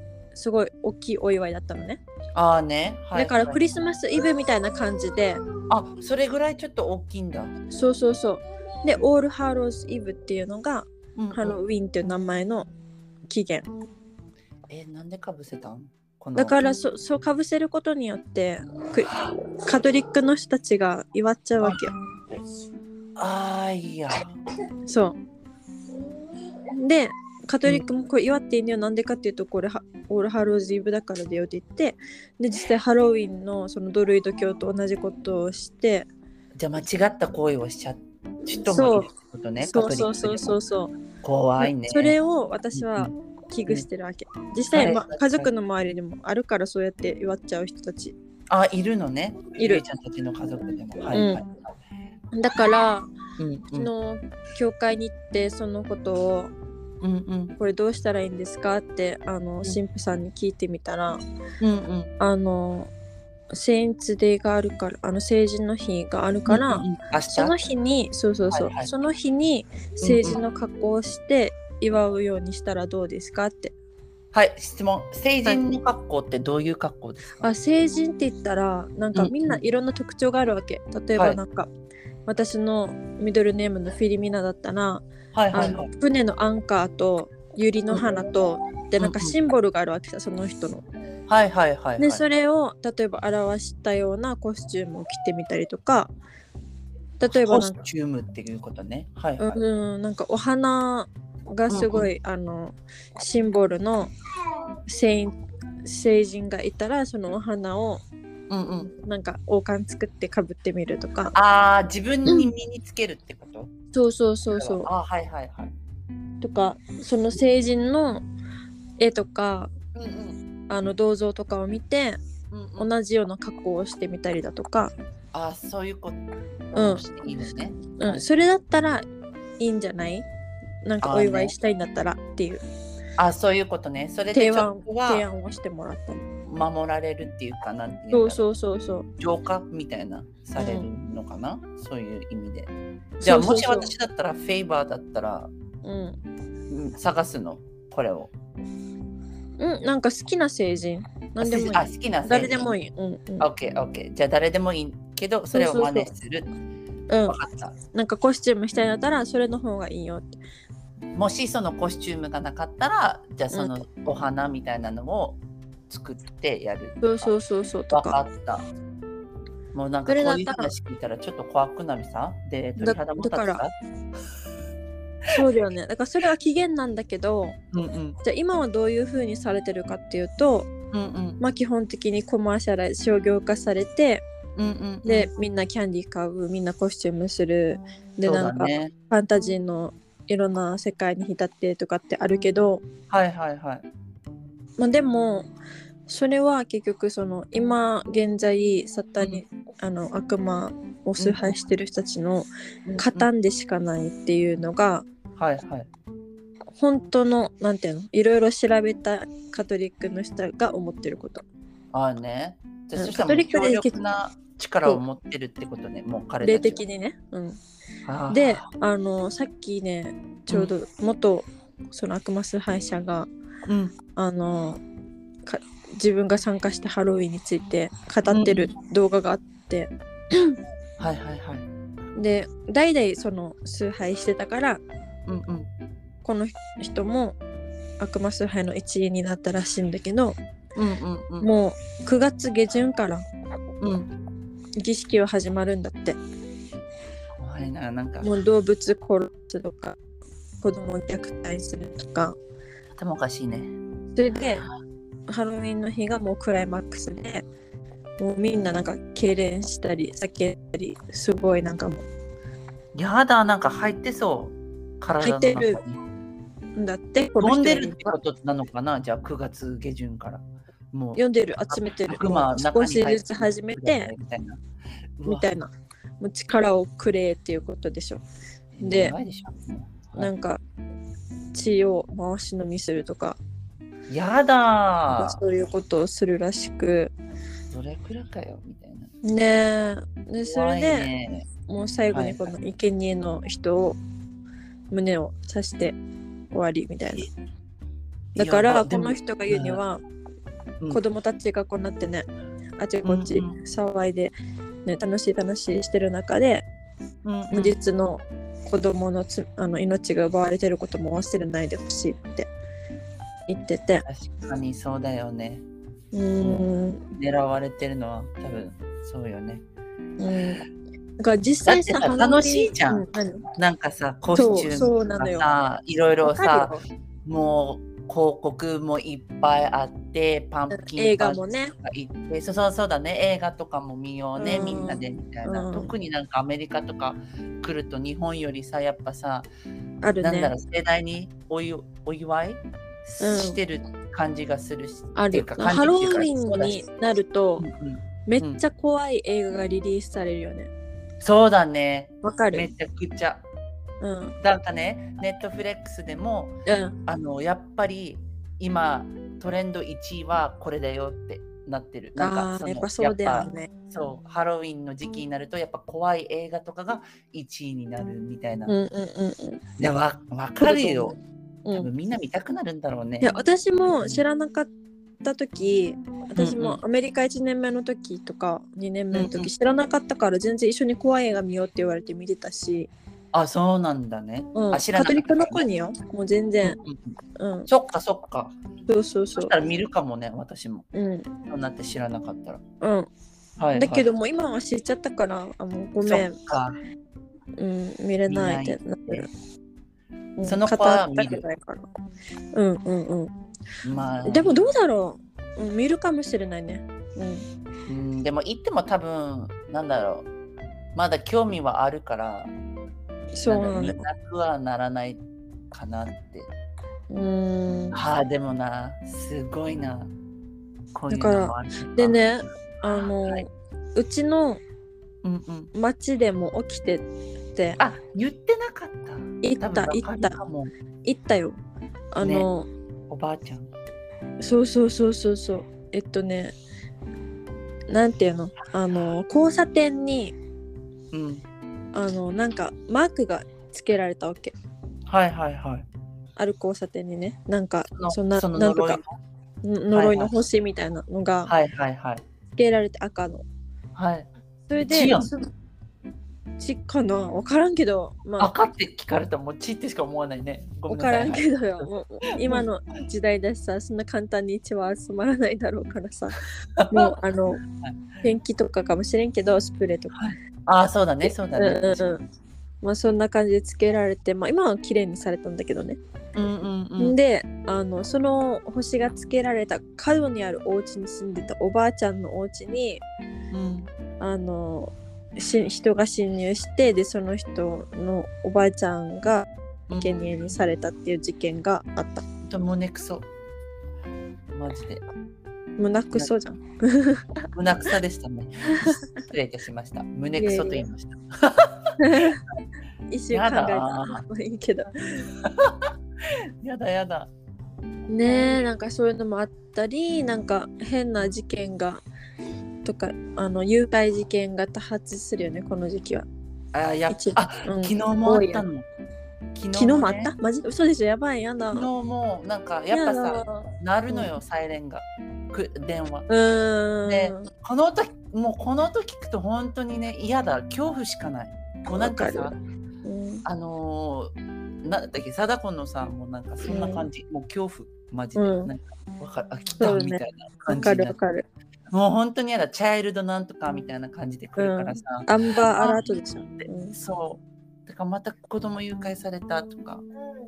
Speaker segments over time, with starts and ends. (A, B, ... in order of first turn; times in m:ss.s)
0:00.3-0:02.0 A
0:02.3-0:03.6 B
0:03.1-0:05.4 A
0:05.7-0:07.5 B
0:07.7-0:12.7 A
0:11.2-0:11.6 B
0:13.3-0:13.7 A
0:14.7-0:16.6 B
0:16.4-0:21.9 A
0:23.2-0:24.4 B
0:24.9-0:25.2 A
0:26.7-0:36.1 A
0:36.6-0:40.5 B
0:38.6-0:40.9 A
0:41.2-0:42.2 B
0:41.6-0:48.1 A
0:42.7-0:43.1 B
0:44.7-0:45.5 B
0:48.5-0:51.5 B
0:49.6-0:49.8 A
0:51.1-0:51.4 A
0:52.3-0:53.1 A
0:53.4-0:53.9 B
0:53.7-0:56.5 A
0:57.0-0:57.5 B
0:57.6-1:01.2 A
1:01.6-1:02.1 B
1:02.2-1:02.9 A
1:03.5-1:13.7 A
1:06.5-1:07.7 B
1:08.5-1:08.9 B
1:10.0-1:10.4 B
1:14.3-1:17.5 B
1:17.4-1:21.7 A
1:19.1-1:19.6 B
1:22.3-1:30.8 A
1:25.3-1:25.9 B
1:29.0-1:29.3 B
1:31.3-1:32.2 B
1:32.0-1:36.1 A
1:37.2-1:37.8 A
1:37.3-1:39.6 B
1:39.4-1:44.1 A
1:41.7-1:42.1 B
1:44.9-1:48.0 A
1:48.5-1:48.9 B
1:48.9-1:51.3 A
1:51.3-1:53.7 B
1:52.2-1:52.5 A
1:53.9-1:54.9 A
1:54.5-1:55.7 B
1:56.4-1:58.2 A
1:59.0-1:59.7 A
1:59.9-2:00.4 B
2:00.7-2:02.2 A
2:02.5-2:02.9 B
2:02.8-2:04.9 A
2:05.3-2:08.2 B
2:06.8-2:07.1 A
2:07.9-2:09.0 A
2:09.6-2:10.2 A
2:10.8-2:12.6 A
2:11.0-2:11.5 B
2:13.2-2:15.2 B
2:14.3-2:16.2 A
2:16.4-2:18.4 B
2:18.1-2:19.1 A
2:19.2-2:25.5 B
2:20.6-2:20.9 A
2:23.2-2:23.9 A
2:25.8-2:26.2 A
2:26.7-2:28.3 B
2:29.6-2:33.5 A
2:31.4-2:32.7 B
2:33.4-2:36.5 B
2:35.5-2:36.1 A
2:37.1-2:37.4 A
2:37.3-2:37.7 B
2:37.9-2:40.4 A
2:41.1-2:47.3 B
2:47.0-2:48.2 A
2:47.9-2:48.7 B
2:49.7-2:53.7 B
2:50.1-2:50.7 A
2:52.8-2:53.6 A
2:55.3-2:57.6 A
2:57.7-2:58.2 B
2:58.2-3:00.7 A
3:00.9-3:01.4 B
3:01.4-3:04.2 A
3:04.6-3:05.3 B
3:05.0-3:12.8 A
3:08.2-3:08.9 B
3:13.1-3:13.8 B
3:14.8-3:15.5 A
3:16.1-3:25.1 A
3:21.2-3:21.5 B
3:22.8-3:23.3 B
3:25.4-3:25.9 B
3:26.8-3:31.4 A
3:31.9-3:36.8 B
3:33.0-3:34.0 A
3:36.4-3:37.6 A
3:38.0-3:38.6 B
3:38.3-3:43.3 A
3:43.7-3:43.9 B
3:44.2-3:44.8 A
3:45.4-3:50.6 A
3:48.3-3:48.7 B
3:51.0-3:51.7 B
3:52.2-3:54.8 A
3:55.3-3:55.7 B
3:56.2-3:57.4 A
3:58.0-4:00.4 A
4:00.8-4:01.5 B
4:01.4-4:03.2 A
4:03.8-4:04.1 B
4:04.8-4:06.2 A
4:07.4-4:08.3 B
4:08.2-4:10.0 A
4:10.6-4:12.4 A
4:13.0-4:13.7 B
4:14.1-4:14.7 A
4:15.3-4:17.4 A
4:18.2-4:22.0 A
4:22.9-4:26.0 B
4:25.2-4:25.8 A
4:26.8-4:28.1 A
4:27.4-4:34.6 B
4:31.2-4:34.1 A
4:35.2-4:35.5 B
4:35.2-4:35.7 A
4:36.2-4:38.2 A
4:38.7-4:40.3 B
4:38.8-4:39.1 A
4:40.1-4:40.6 A
4:41.5-4:43.4 A
4:44.1-4:45.4 B
4:45.1-4:47.1 A
4:47.7-4:49.1 B
4:49.2-4:51.1 A
4:50.5-4:51.5 B
4:51.7-4:54.0 A
4:52.1-4:52.4 B
4:54.9-4:56.0 A
4:56.5-4:57.3 A
4:58.3-4:59.8 B
4:58.4-5:00.0 A
5:00.9-5:04.3 A
5:03.0-5:03.6 B
5:04.8-5:06.6 A
5:07.2-5:07.7 B
5:07.5-5:12.5 A
5:13.5-5:14.0 A
5:14.0-5:15.6 B
5:16.1-5:17.0 A
5:16.4-5:19.6 B
5:20.2-5:20.6 A
5:21.2-5:23.4 A
5:21.6-5:23.0 B
5:23.6-5:39.5 B
5:24.3-5:25.5 A
5:26.2-5:26.8 A
5:30.7-5:31.7 A
5:34.4-5:35.9 A
5:40.0-5:40.5 A
5:40.2-5:46.8 B
5:43.2-5:43.6 A
5:45.1-5:47.6 A
5:47.6-5:48.6 B
5:48.3-5:50.7 A
5:51.2-5:53.4 B
5:52.2-5:52.7 A
5:54.0-5:54.4 A
5:54.4-6:08.7 B
5:56.6-5:57.0 A
6:02.2-6:03.7 A
6:08.7-6:09.6 A
6:09.8-6:11.2 B
6:10.6-6:11.9 A
6:11.7-6:13.3 B
6:13.2-6:14.7 A
6:15.2-6:22.9 A
6:16.4-6:16.8 B
6:19.1-6:19.5 B
6:23.3-6:25.6 B
6:24.5-6:26.8 A
6:26.6-6:27.2 B
6:27.4-6:27.7 A
6:27.7-6:28.6 B
6:28.9-6:29.5 A
6:29.4-6:30.9 B
6:30.9-6:31.3 A
6:31.5-6:32.6 B
6:32.8-6:33.1 A
6:33.6-6:34.1 B
6:33.7-6:36.4 A
6:36.0-6:36.8 B
6:37.6-6:39.3 A
6:38.3-6:39.3 B
6:40.4-6:41.9 A
6:40.4-6:41.4 B
6:42.5-6:43.3 A
6:43.8-6:44.6 B
6:44.2-6:47.4 A
6:47.9-6:50.3 B
6:50.9-6:52.5 B
6:53.3-6:54.0 A
6:53.4-6:56.5 B
6:57.1-6:58.0 A
6:57.9-7:00.1 B
7:00.9-7:02.2 B
7:01.1-7:04.6 A
7:02.8-7:03.4 B
7:05.2-7:05.7 B
7:05.7-7:07.8 A
7:07.8-7:10.7 B
7:09.4-7:10.4 A
7:11.0-7:11.6 A
7:12.1-7:12.7 A
7:12.2-7:12.5 B
7:13.1-7:13.7 B
7:14.4-7:16.5 A
7:17.9-7:20.3 A
7:21.1-7:21.4 B
7:21.9-7:24.5 A
7:25.1-7:25.8 B
7:26.4-7:29.0 A
7:27.9-7:29.1 B
7:29.6-7:31.5 A
7:29.9-7:30.3 B
7:31.5-7:32.2 B
7:32.6-7:33.4 A
7:33.9-7:34.3 B
7:34.7-7:35.4 A
7:34.9-7:35.3 B
7:36.6-7:38.5 A
7:38.4-7:41.8 B
7:40.9-7:47.6 A
7:46.8-7:47.1 B
7:47.8-7:48.2 B
7:48.2-7:50.2 A
7:50.1-7:52.1 B
7:51.2-7:52.2 A
7:52.8-7:56.0 A
7:56.3-7:57.2 B
7:57.0-8:03.0 A
8:03.5-8:03.9 B
8:04.2-8:12.2 A
8:09.9-8:10.2 B
8:12.4-8:13.3 B
8:14.5-8:15.0 B
8:15.8-8:17.3 A
8:17.5-8:21.9 B
8:18.7-8:19.2 A
8:20.4-8:20.8 A
8:22.0-8:22.4 A
8:23.1-8:25.3 A
8:23.3-8:24.2 B
8:25.4-8:25.9 B
8:26.6-8:27.3 B
8:28.1-8:32.0 A
8:32.8-8:36.3 A
8:36.7-8:38.8 B
8:37.1-8:38.6 A
8:39.5-8:40.3 B
8:39.7-8:41.9 A
8:41.7-8:46.3 B
8:42.9-8:44.3 A
8:46.3-8:47.5 A
8:47.0-8:52.6 B
8:52.0-8:52.5 A
8:53.0-8:53.4 A
8:53.4-8:54.3 B
8:54.8-9:01.2 B
8:56.7-8:57.0 A
8:58.4-8:58.7 A
8:59.8-9:01.4 A
9:01.9-9:05.3 B
9:04.6-9:07.0 A
9:05.8-9:10.0 B